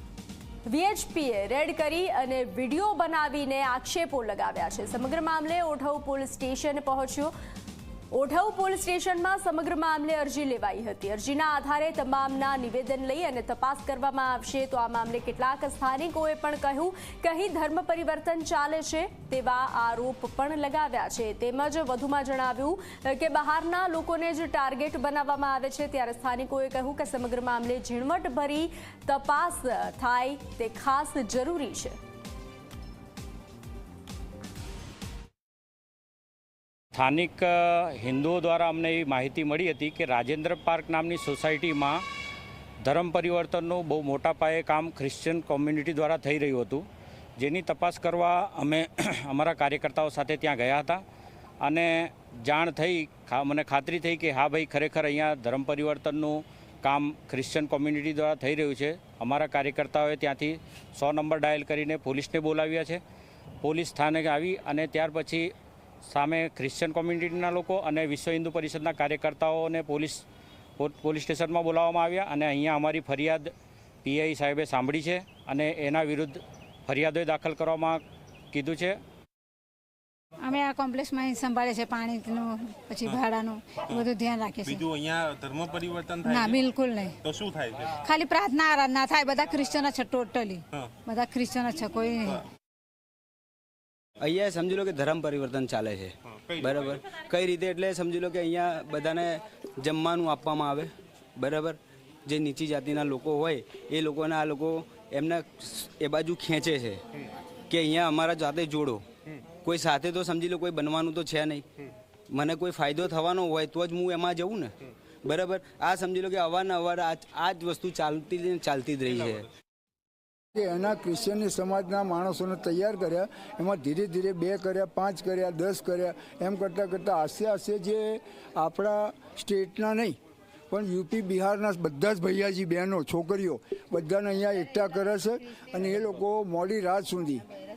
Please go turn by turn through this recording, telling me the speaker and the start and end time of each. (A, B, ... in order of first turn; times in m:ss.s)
0:00.6-0:07.3 A
0:08.1-0:32.0 A
0:36.9-0:42.0 B
0:42.8-0:46.8 B
0:47.4-0:51.0 B
0:51.6-1:03.0 B
1:03.6-1:05.5 B
1:06.0-1:10.2 B
1:10.8-1:13.5 B
1:14.0-1:19.0 B
1:20.4-1:24.9 C
1:24.8-1:26.4 D
1:26.2-1:27.2 C
1:27.2-1:27.8 D
1:27.9-1:32.4 C
1:34.2-1:47.0 E
1:47.7-1:49.0 E
1:49.6-1:51.6 E
1:52.3-1:59.5 E
2:00.5-2:10.2 F
2:10.7-2:17.4 F